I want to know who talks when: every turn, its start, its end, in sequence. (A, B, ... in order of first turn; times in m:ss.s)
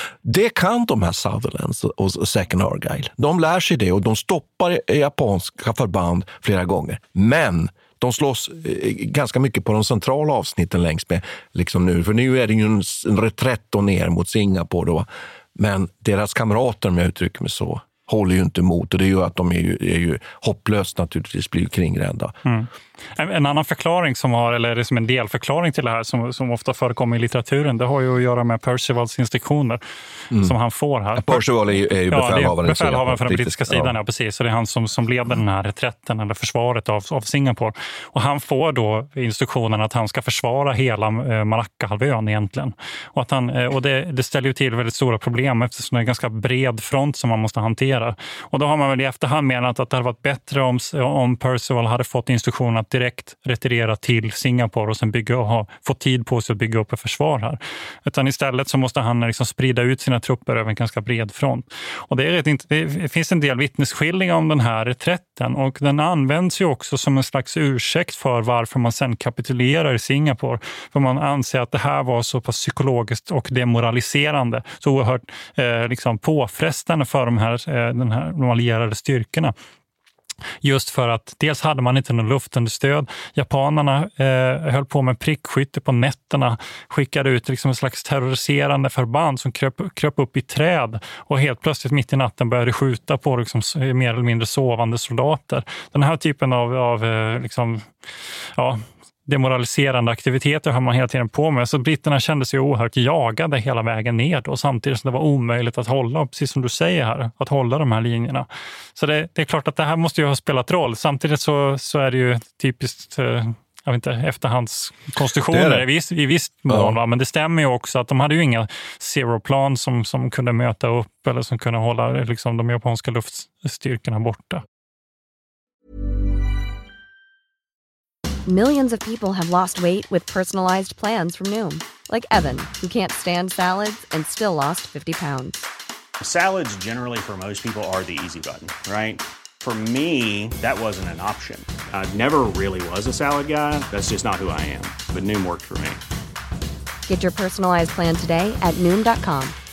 0:00.2-0:22.4 A
0:22.4-0:29.8 B
0:30.4-0:31.5 B
0:31.1-0:34.0 A
0:32.1-1:19.5 B
1:20.6-1:37.9 B
1:38.6-2:04.6 B
1:55.3-1:55.9 A
1:56.7-1:57.0 A
2:08.4-2:15.6 C
2:16.2-2:26.0 D
2:27.0-2:29.6 C